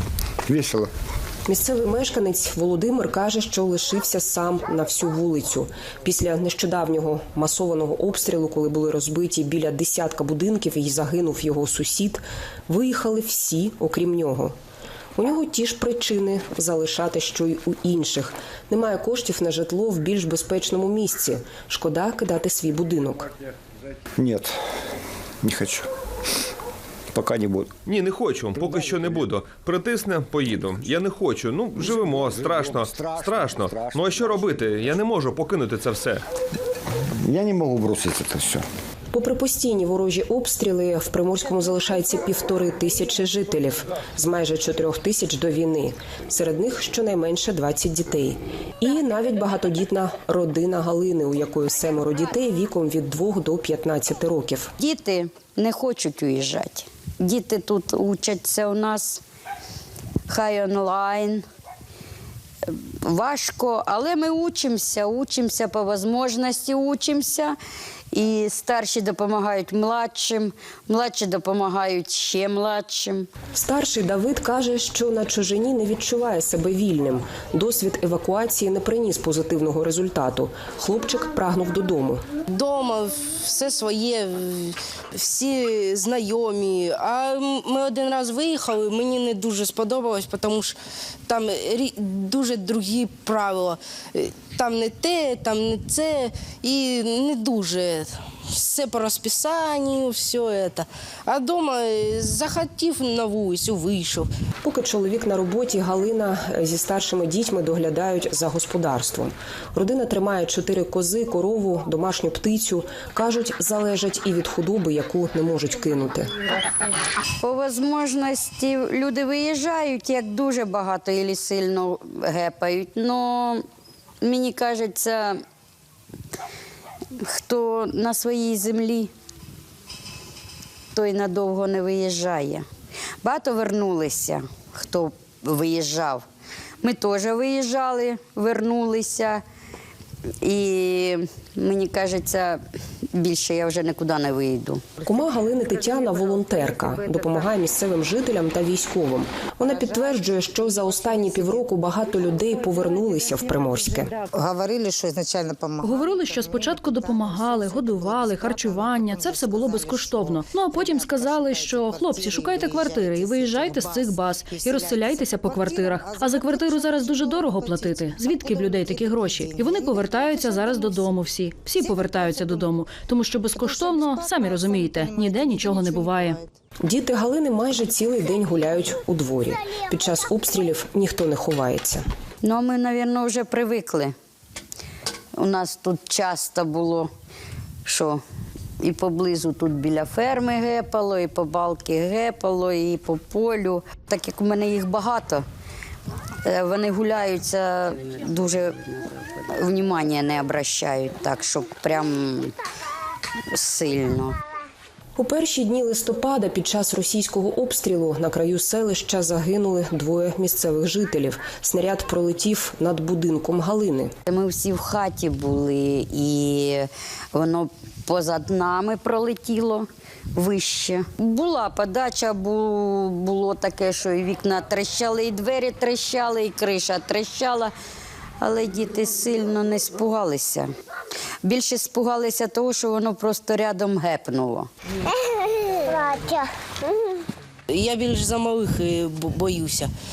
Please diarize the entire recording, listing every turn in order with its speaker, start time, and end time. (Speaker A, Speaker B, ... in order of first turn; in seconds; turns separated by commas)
Speaker A: 0.4-0.9, Speaker B: 1.4-14.5, Speaker B: 15.1-23.3, Speaker A: 24.2-24.6, Speaker A: 25.4-25.9, Speaker A: 27.1-27.8, Speaker C: 27.8-36.2, Speaker A: 28.6-29.1, Speaker A: 31.8-34.8, Speaker A: 37.2-38.6, Speaker B: 39.1-54.7, Speaker D: 54.8-59.2, Speaker D: 60.3-61.4, Speaker D: 62.7-67.5, Speaker D: 68.1-73.3, Speaker B: 73.5-82.2, Speaker E: 82.5-90.7, Speaker E: 91.3-104.3, Speaker B: 104.6-116.3, Speaker D: 117.4-123.6, Speaker D: 124.2-125.4, Speaker D: 127.2-129.1, Speaker D: 130.9-132.7, Speaker D: 133.2-136.2, Speaker D: 136.8-139.4, Speaker D: 140.4-142.6, Speaker D: 143.1-144.8, Speaker B: 145.0-154.1, Speaker F: 155.8-176.4, Speaker B: 176.8-182.0, Speaker D: 182.4-184.1, Speaker D: 185.3-187.1, Speaker D: 187.8-188.2, Speaker D: 188.8-195.4, Speaker D: 196.4-202.5, Speaker D: 203.5-204.4, Speaker B: 205.2-214.1, Speaker D: 214.2-227.7, Speaker D: 228.4-230.7, Speaker D: 231.4-234.7, Speaker E: 237.7-239.9